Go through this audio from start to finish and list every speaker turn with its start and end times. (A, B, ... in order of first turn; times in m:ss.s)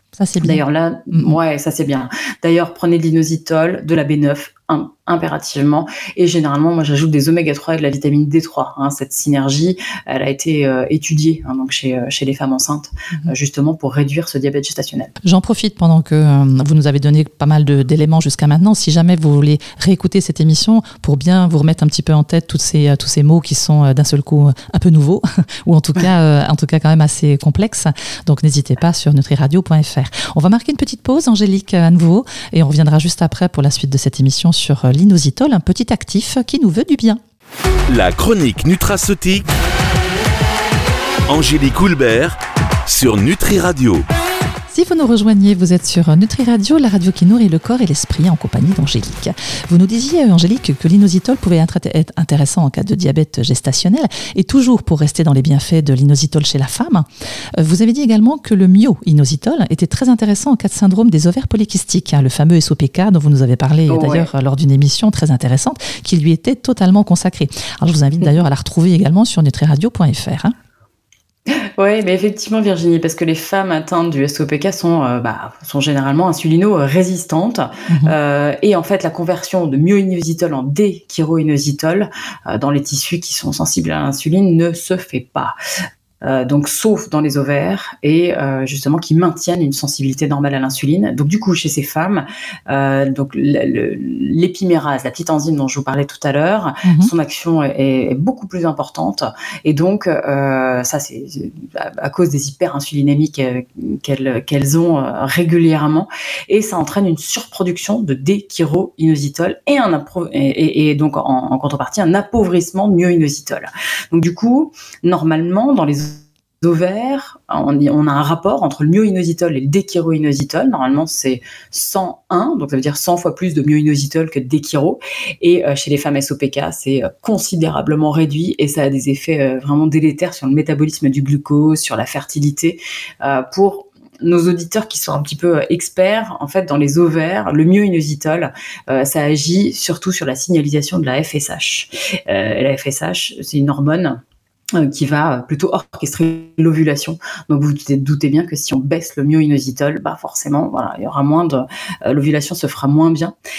0:00.2-0:01.4 A
0:00.4-0:15.1 B
0:15.2-0:37.2 A
0:37.9-0:39.5 C
0:41.3-0:44.1 C
0:44.7-1:10.5 A
1:03.9-1:04.3 B
1:11.5-1:25.6 B
1:17.9-1:18.2 A
1:26.2-2:24.2 B
1:36.8-1:37.1 A
2:24.8-2:33.4 B